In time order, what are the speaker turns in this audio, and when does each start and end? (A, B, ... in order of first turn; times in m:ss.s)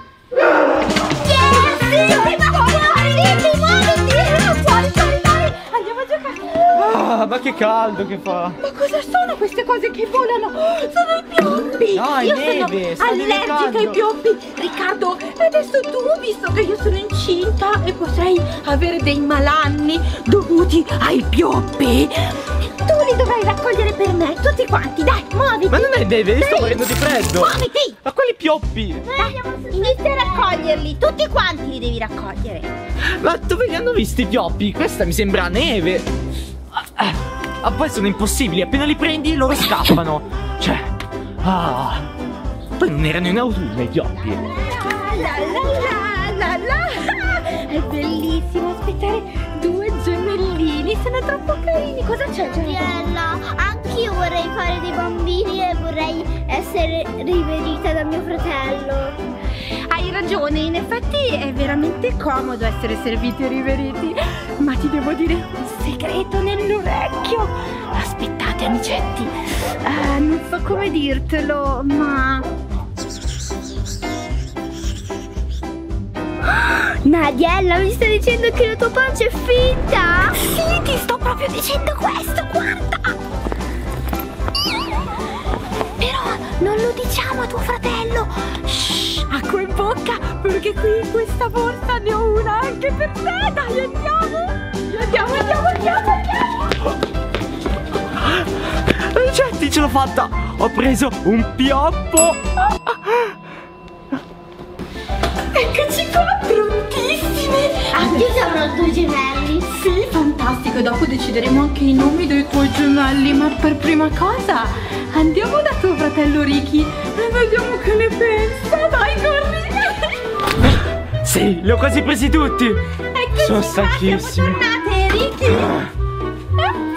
0:01.2-0:04.0 A
0:01.2-0:06.8 B
0:06.7-0:08.6 C
0:08.6-0:28.0 B
0:11.9-0:14.0 C
0:25.7-0:27.5 C
0:28.0-0:29.1 C
0:29.0-0:30.6 A
0:29.2-0:32.7 B
0:33.2-0:36.1 C
0:36.8-0:40.9 C
0:41.4-0:42.1 C
0:42.8-0:44.4 C
0:44.4-0:53.0 B
0:52.5-0:59.2 A
0:59.9-1:09.3 B
1:09.8-1:12.5 B
1:16.5-1:20.4 A
1:20.4-1:23.2 B
1:26.0-1:36.8 B
1:38.2-1:43.4 C
1:45.5-1:48.3 B
1:47.9-1:49.7 A
1:49.7-2:00.1 B
2:01.2-2:02.8 C
2:03.1-2:05.8 B
2:03.4-2:04.6 C